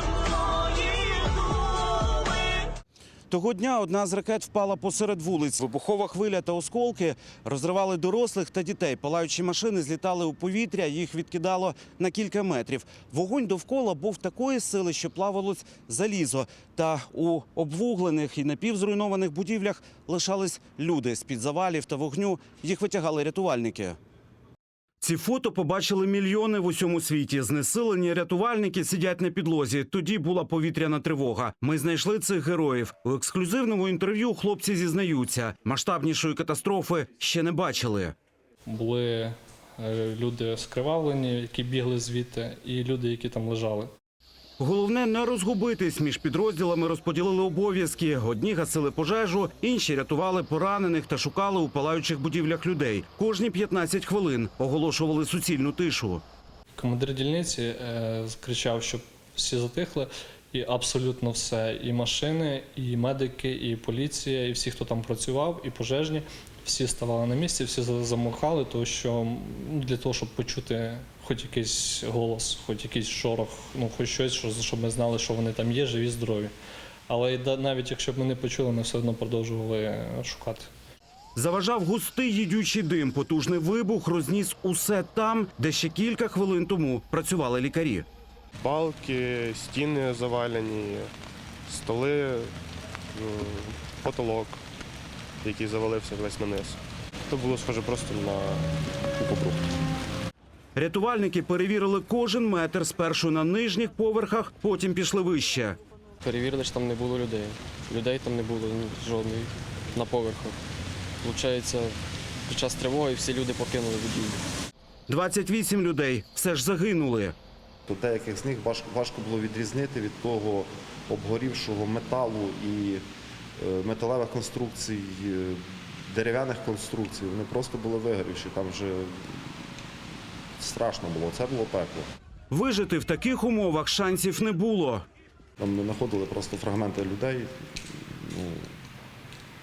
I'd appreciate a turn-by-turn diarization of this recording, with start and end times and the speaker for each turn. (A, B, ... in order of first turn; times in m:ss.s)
0:03.3-0:24.0 A
0:25.0-0:38.1 A
0:38.6-0:43.9 B
0:44.6-0:56.2 A
0:56.8-1:16.5 B
1:17.1-1:20.7 B
1:21.4-1:28.0 A
1:28.6-1:31.1 C
1:31.7-1:32.5 C
1:33.1-1:34.6 C
1:35.4-1:36.8 C
1:37.3-1:38.7 C
1:39.2-1:39.7 C
1:40.8-1:45.8 A
1:46.2-1:50.6 D
1:51.2-1:52.0 D
1:52.5-1:54.4 D
1:55.1-1:57.3 A
1:57.9-2:03.0 E
2:03.6-2:09.5 E
2:10.6-2:12.1 E
2:12.5-2:15.0 A
2:15.6-2:18.7 E